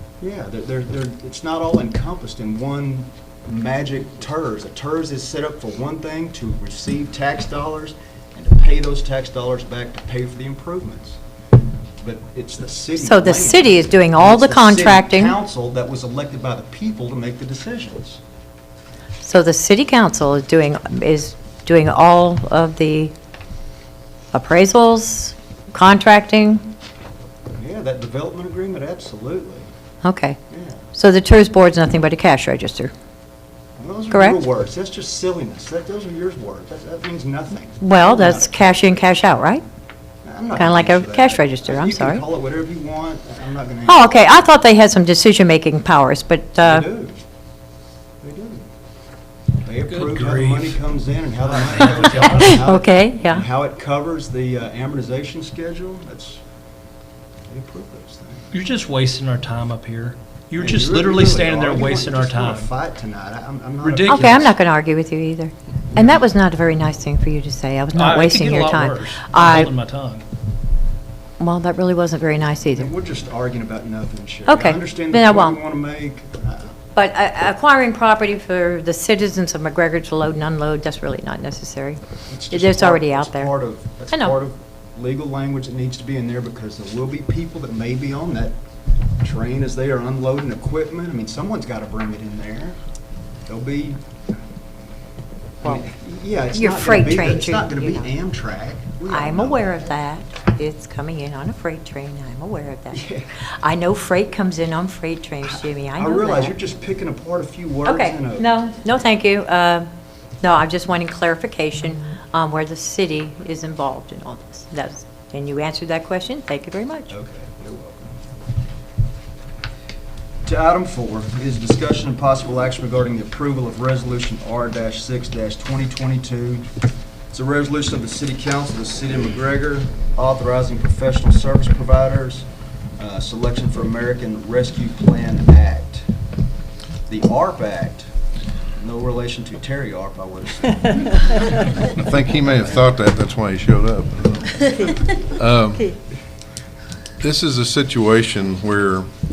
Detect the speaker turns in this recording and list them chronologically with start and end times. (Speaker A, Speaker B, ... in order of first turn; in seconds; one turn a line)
Speaker A: 0.2-11.2
Speaker A: 12.0-18.2
Speaker B: 13.0-15.3
Speaker B: 19.2-23.1
Speaker B: 24.3-26.7
Speaker A: 27.6-29.7
Speaker B: 30.0-30.4
Speaker A: 30.5-30.8
Speaker B: 30.9-32.9
Speaker A: 33.8-38.8
Speaker B: 34.1-34.4
Speaker B: 37.8-39.6
Speaker A: 40.2-44.1
Speaker B: 40.5-42.2
Speaker B: 43.9-46.8
Speaker A: 46.6-47.2
Speaker A: 48.2-48.7
Speaker A: 49.6-56.4
Speaker C: 49.9-50.8
Speaker C: 51.5-52.6
Speaker B: 52.0-53.4
Speaker A: 57.5-58.5
Speaker C: 58.5-62.7
Speaker A: 60.6-64.5
Speaker C: 63.8-64.5
Speaker B: 64.0-69.7
Speaker A: 65.9-66.3
Speaker C: 67.9-70.2
Speaker B: 71.4-72.9
Speaker A: 72.7-76.7
Speaker B: 74.5-75.6
Speaker B: 77.0-82.0
Speaker A: 82.3-88.5
Speaker B: 82.5-83.5
Speaker A: 89.2-92.8
Speaker A: 93.5-94.0
Speaker A: 95.6-100.0
Speaker B: 96.5-98.1
Speaker B: 99.1-106.5
Speaker A: 102.9-103.3
Speaker A: 105.4-108.5
Speaker B: 107.8-109.9
Speaker B: 110.4-117.1
Speaker A: 117.1-118.2
Speaker A: 120.4-126.7
Speaker A: 127.3-132.5
Speaker A: 133.0-136.1
Speaker A: 137.1-138.0
Speaker A: 138.8-141.2
Speaker D: 141.8-145.9
Speaker D: 147.2-149.1